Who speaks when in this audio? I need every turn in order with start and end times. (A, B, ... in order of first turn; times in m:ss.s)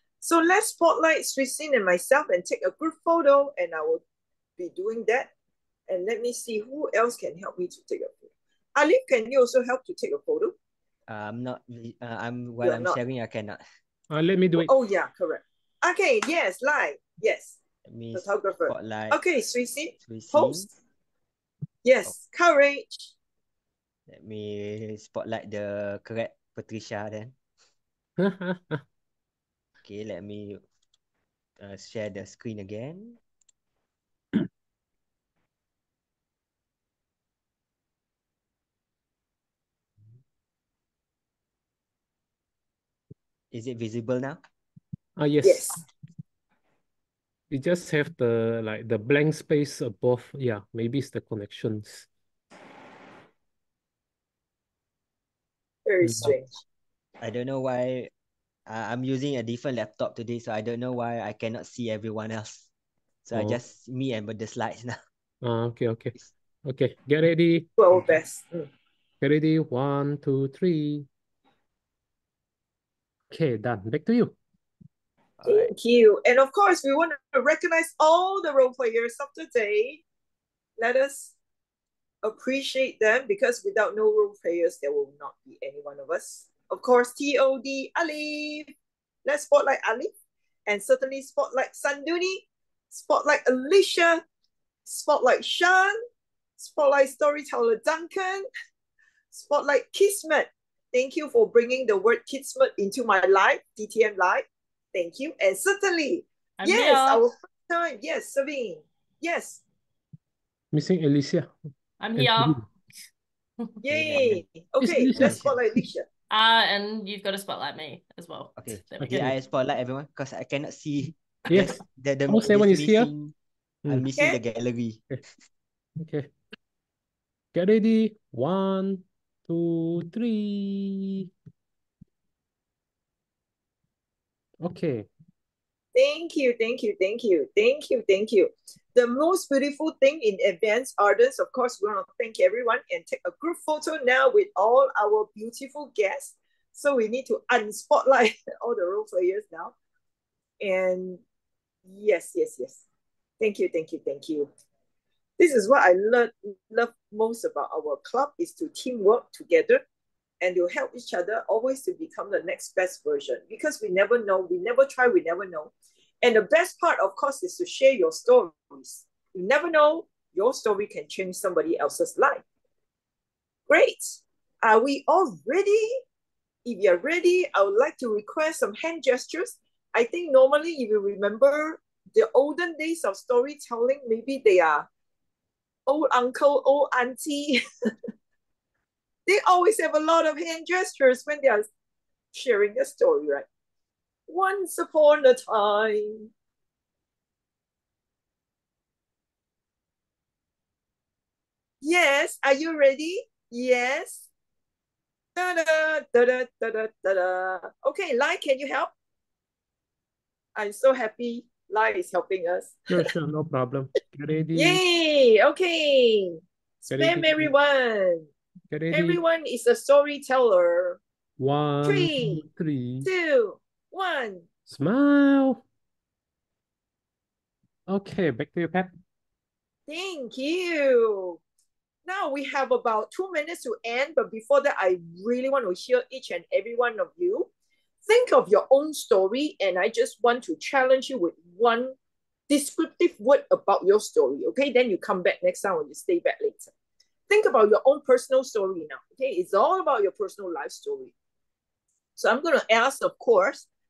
0:00.2-0:04.0 A
0:04.6-0:05.3 A
0:05.9-0:10.6 A
0:11.1-0:13.6 B
0:12.6-0:13.0 A
0:14.1-0:14.7 C
0:14.6-0:17.6 A
0:17.9-0:19.2 B
0:18.1-0:20.7 A
0:20.0-0:20.7 B
0:21.8-0:23.1 A
0:24.1-0:27.4 B
0:28.2-0:28.8 C
0:29.8-0:30.6 B
0:31.6-0:33.2 B
0:43.5-0:44.4 B
0:45.2-0:45.8 C
0:45.4-0:45.8 A
0:47.5-0:52.1 C
0:55.9-0:56.5 A
0:56.0-0:56.3 C
0:57.2-0:58.1 B
0:58.7-1:02.7 B
1:03.3-1:05.0 B
1:03.3-1:03.6 C
1:05.4-1:06.1 C
1:06.7-1:07.7 C
1:07.8-1:08.7 A
1:09.2-1:11.1 C
1:13.3-1:14.4 C
1:15.4-1:15.7 B
1:15.4-1:20.0 A
1:20.8-1:21.3 A
1:22.2-1:28.7 A
1:29.2-1:30.1 A
1:30.7-1:34.2 A
1:34.9-1:36.0 A
1:36.6-1:38.5 A
1:39.3-1:49.6 A
1:46.6-1:47.2 D
1:50.7-1:51.5 C
1:52.0-1:52.6 D
1:52.2-1:52.6 C
1:53.8-1:56.1 A
1:53.9-1:54.4 B
1:54.8-1:55.4 C
1:55.2-1:55.5 B
1:56.3-1:59.2 D
1:58.6-2:03.3 B
1:59.0-1:59.3 C
2:01.5-2:03.1 C
2:03.9-2:05.0 B
2:06.0-2:06.3 C
2:07.5-2:11.3 C
2:14.6-2:15.1 C
2:16.0-2:29.7 A
2:30.6-2:31.2 A
2:31.9-2:32.8 A
2:33.4-2:34.5 A
2:35.4-2:39.8 A
2:40.4-2:45.7 A
2:46.2-2:52.4 A
2:53.7-2:56.0 A
2:56.6-3:04.9 A
3:05.9-3:07.6 A
3:09.3-3:11.7 A
3:12.3-3:13.5 A
3:14.3-3:16.3 A
3:21.8-3:24.2 A
3:25.4-3:28.9 A
3:30.6-3:32.8 A
3:32.9-3:34.8 C
3:34.5-3:38.3 A
3:36.9-3:37.5 C
3:38.7-3:39.2 C
3:38.9-3:41.0 A
3:41.4-3:43.1 C
3:41.8-3:42.4 A
3:43.0-3:44.5 A
3:44.7-3:45.6 C
3:47.9-3:48.9 C
3:49.9-3:51.4 A
3:52.0-3:57.5 A
3:58.0-4:02.0 A
4:02.5-4:06.7 A
4:07.3-4:11.1 A
4:12.2-4:13.6 A